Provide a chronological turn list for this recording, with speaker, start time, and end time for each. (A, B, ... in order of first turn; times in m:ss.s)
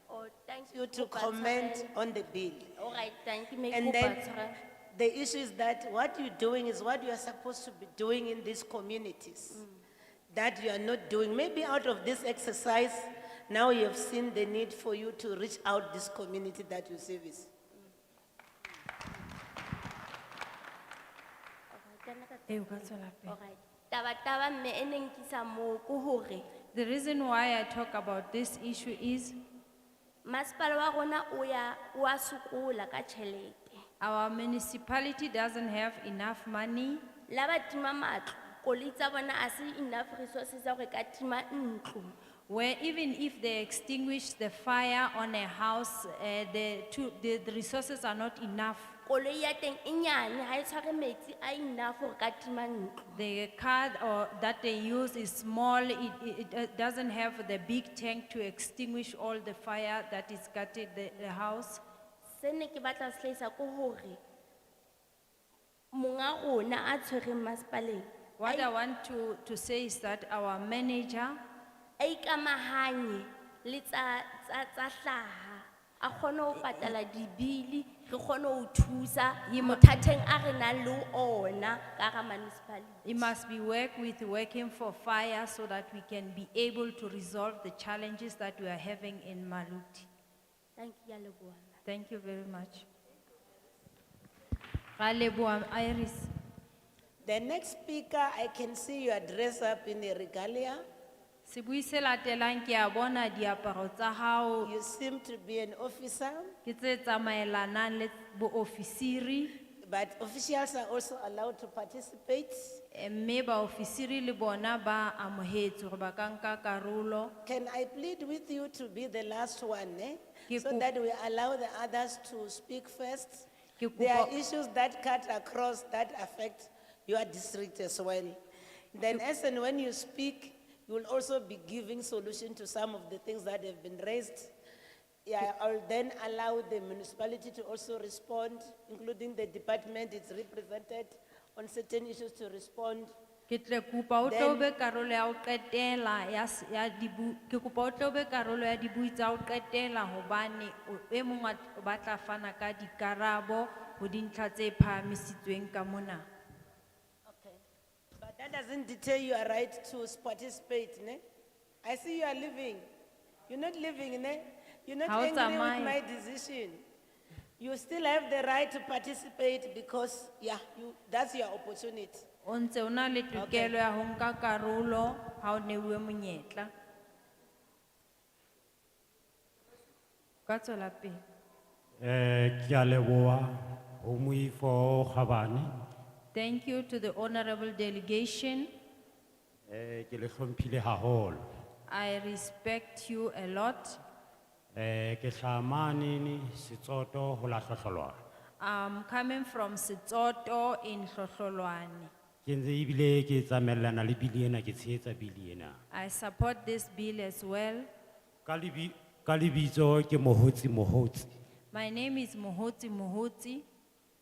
0:00.1-0:01.9 A
0:00.7-0:02.7 B
0:02.8-0:04.6 A
0:03.7-0:04.3 B
0:04.9-0:09.6 B
0:09.5-0:09.8 A
0:10.3-0:17.5 B
0:21.7-0:26.5 A
0:22.5-0:23.4 C
0:26.7-0:29.4 C
0:30.2-0:33.8 A
0:34.0-0:37.0 C
0:37.3-0:42.2 A
0:42.5-0:49.0 C
0:49.1-0:53.2 A
0:53.2-1:01.8 C
1:02.3-1:04.2 A
1:05.9-1:08.7 A
1:08.4-1:11.4 C
1:12.0-1:23.3 A
1:19.5-1:19.8 C
1:23.0-1:30.1 C
1:30.8-1:31.7 A
1:31.8-1:32.9 C
1:35.0-1:36.3 C
1:37.2-1:40.8 B
1:41.4-1:44.7 C
1:44.6-1:46.5 B
1:46.6-1:49.6 C
1:49.8-1:52.8 B
1:52.9-1:57.3 C
1:57.4-2:08.4 B
2:00.5-2:00.9 C
2:03.8-2:04.3 C
2:08.9-2:14.5 B
2:15.2-2:23.1 B
2:23.5-2:36.3 C
2:24.2-2:24.7 B
2:37.3-2:37.6 B
2:38.2-2:41.2 B
2:41.8-2:42.9 B
2:43.5-2:46.8 B
2:45.1-2:46.0 C
2:47.6-2:52.3 B
2:52.4-2:56.7 C
2:53.3-2:53.8 B
3:00.5-3:01.2 C
3:02.0-3:05.7 D
3:06.3-3:08.7 C
3:09.7-3:11.4 D
3:11.9-3:14.0 C
3:14.7-3:18.2 D
3:18.6-3:22.1 C
3:22.4-3:25.8 D
3:25.9-3:27.9 C
3:28.5-3:31.3 D
3:31.7-3:33.6 C